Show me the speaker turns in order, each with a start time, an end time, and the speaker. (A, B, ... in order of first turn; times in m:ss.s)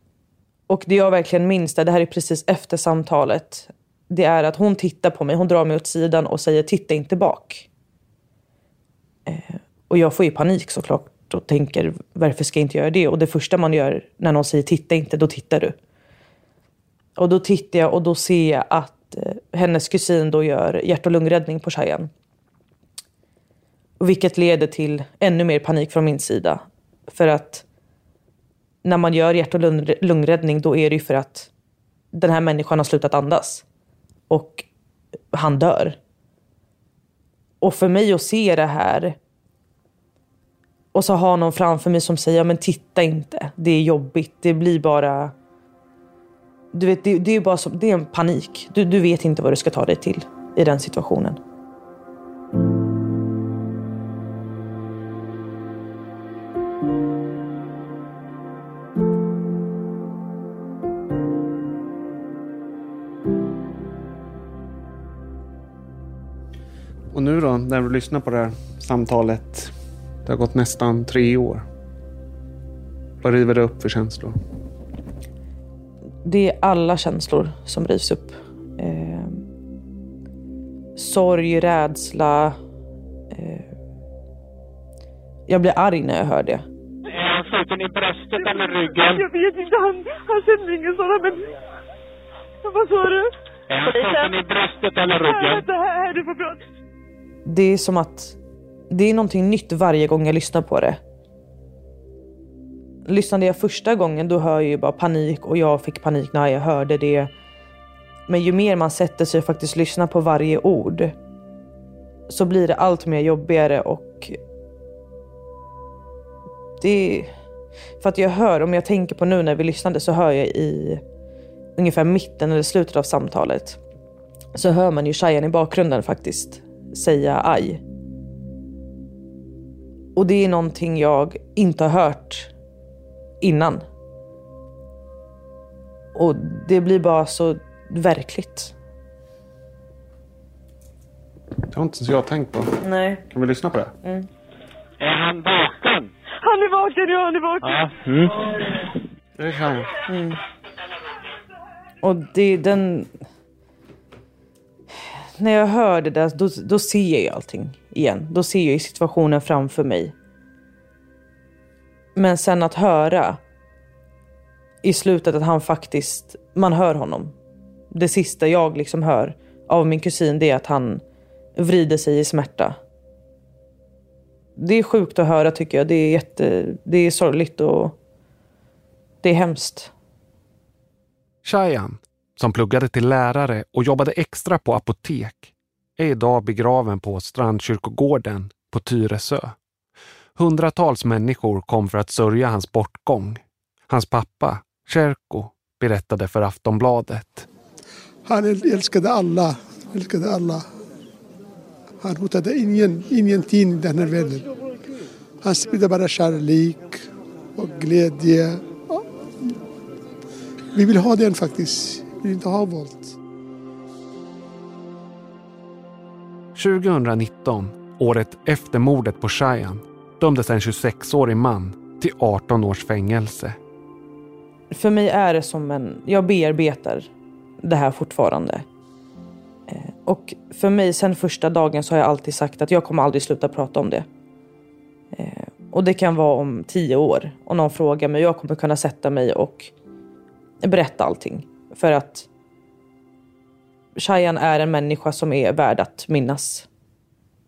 0:00.7-0:07.7 A
0:09.3-0:15.8 A
0:17.2-0:22.1 A
0:24.0-0:27.6 A
0:28.8-0:31.5 A
0:32.1-0:33.6 A
0:34.3-0:34.7 A
0:35.3-0:36.0 A
0:37.6-0:39.2 A
0:40.9-0:45.3 A
0:46.7-0:51.4 A
1:07.1-1:09.7 B
1:10.2-1:11.6 B
1:13.2-1:14.3 B
1:16.2-1:19.4 A
1:21.0-1:22.5 A
1:23.3-1:23.7 A
1:25.5-1:26.6 A
1:27.1-1:29.3 C
1:28.4-1:31.5 D
1:32.6-1:34.4 D
1:33.7-1:35.6 C
1:35.2-1:36.6 D
1:37.4-1:38.4 A
1:38.9-1:41.0 A
1:43.0-1:47.3 A
1:48.3-1:51.1 A
1:52.3-1:54.4 A
1:56.8-1:57.3 A
1:58.0-2:01.0 A
2:01.8-2:03.8 A
2:04.5-2:07.8 A
2:10.1-2:12.5 A
2:13.4-2:13.8 A
2:16.1-2:18.7 A
2:21.7-2:23.9 B
2:22.8-2:23.2 A
2:25.0-2:26.1 C
2:26.4-2:27.8 D
2:27.6-2:28.4 C
2:29.4-2:29.9 B
2:30.1-2:30.4 A
2:32.0-2:33.1 A
2:35.4-2:40.1 A
2:42.1-2:43.4 A
2:44.8-2:47.3 A
2:47.9-2:51.0 A
2:51.6-2:52.8 A
2:54.6-2:58.0 A
2:59.2-2:59.9 A
3:01.4-3:09.5 B
3:10.4-3:17.5 B
3:18.2-3:20.6 E
3:22.0-3:24.4 E
3:25.4-3:27.0 E
3:27.6-3:29.0 E
3:30.7-3:33.1 E
3:36.6-3:43.6 B
3:44.7-3:47.1 A
3:47.6-3:48.6 A
3:49.7-3:54.0 A
3:55.1-3:59.7 A
4:00.6-4:02.3 A
4:04.0-4:06.7 A